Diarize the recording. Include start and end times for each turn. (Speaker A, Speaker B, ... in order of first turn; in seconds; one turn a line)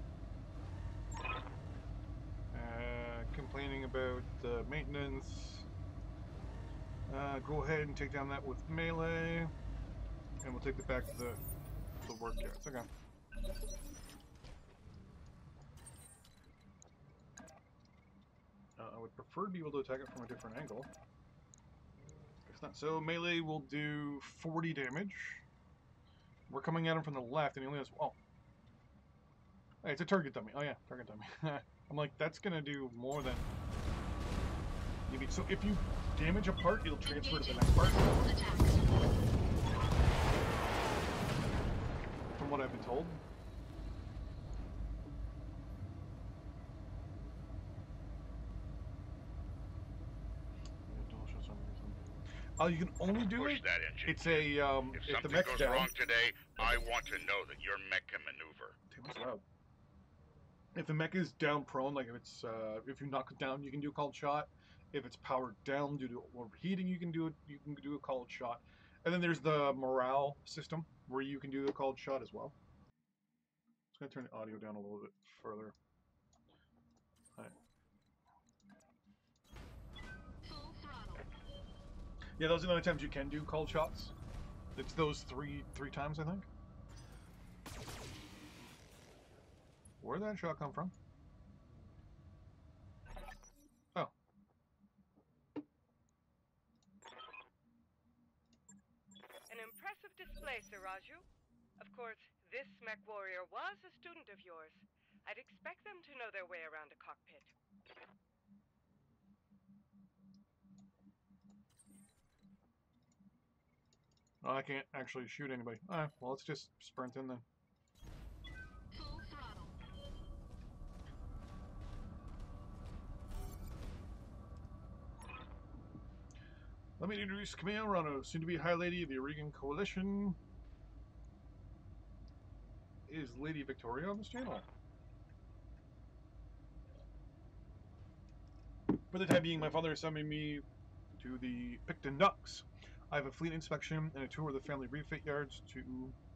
Speaker A: 2.5-5.7
Speaker A: 7.1-9.5
Speaker A: 10.4-11.4
Speaker A: 12.0-12.9
Speaker A: 18.8-20.9
Speaker A: 22.5-25.4
Speaker A: 26.5-28.2
Speaker A: 29.8-33.5
Speaker A: 35.1-38.2
Speaker B: 37.0-38.8
Speaker A: 42.4-43.2
Speaker A: 50.9-52.0
Speaker A: 52.6-55.9
Speaker C: 53.3-58.8
Speaker A: 58.9-59.5
Speaker A: 60.8-72.6
Speaker A: 73.9-75.8
Speaker B: 80.4-81.3
Speaker A: 82.4-84.1
Speaker A: 84.8-86.5
Speaker A: 90.0-90.9
Speaker D: 99.5-101.3
Speaker D: 101.8-107.5
Speaker A: 114.4-117.4
Speaker B: 118.9-119.8
Speaker A: 127.0-130.4
Speaker A: 133.1-134.7
Speaker A: 138.9-140.7
Speaker A: 141.2-146.2